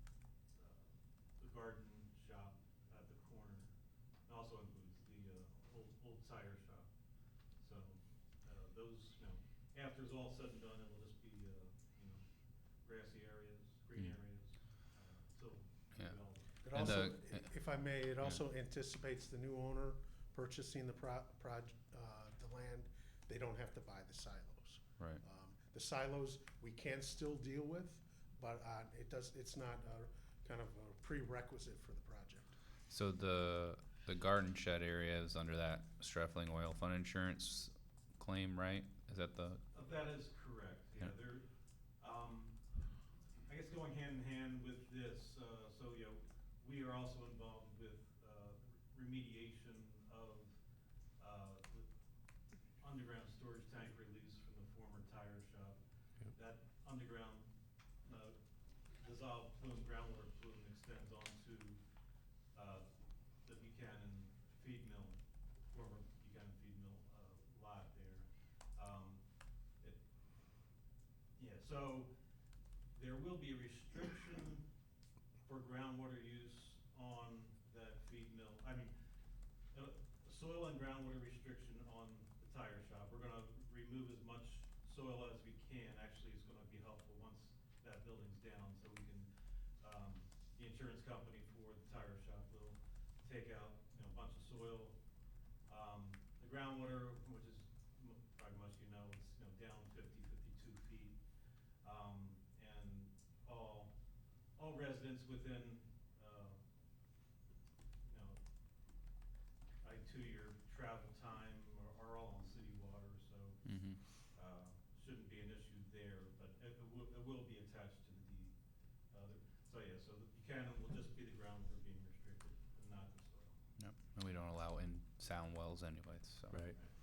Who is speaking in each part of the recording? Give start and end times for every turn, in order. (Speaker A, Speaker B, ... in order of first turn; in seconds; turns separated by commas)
Speaker A: 0.5-3.7, Speaker A: 4.3-6.9, Speaker A: 7.6-12.2, Speaker A: 12.8-16.5, Speaker B: 16.6-32.5, Speaker C: 16.7-17.5, Speaker C: 32.9-39.6, Speaker A: 39.7-41.5, Speaker A: 42.0-42.5, Speaker A: 43.5-50.6, Speaker A: 51.2-51.9, Speaker A: 52.8-55.8, Speaker A: 56.3-57.5, Speaker A: 58.0-58.4, Speaker A: 59.0-61.8, Speaker A: 62.5-62.9, Speaker A: 63.4-70.0, Speaker A: 71.4-72.1, Speaker A: 72.9-74.6, Speaker A: 75.4-78.9, Speaker A: 79.7-89.3, Speaker A: 89.8-95.0, Speaker A: 95.7-101.2, Speaker A: 101.8-103.9, Speaker A: 104.6-106.6, Speaker A: 108.0-108.4, Speaker A: 109.8-113.6, Speaker C: 113.7-114.0, Speaker A: 114.3-118.5, Speaker A: 119.1-123.6, Speaker C: 123.8-126.6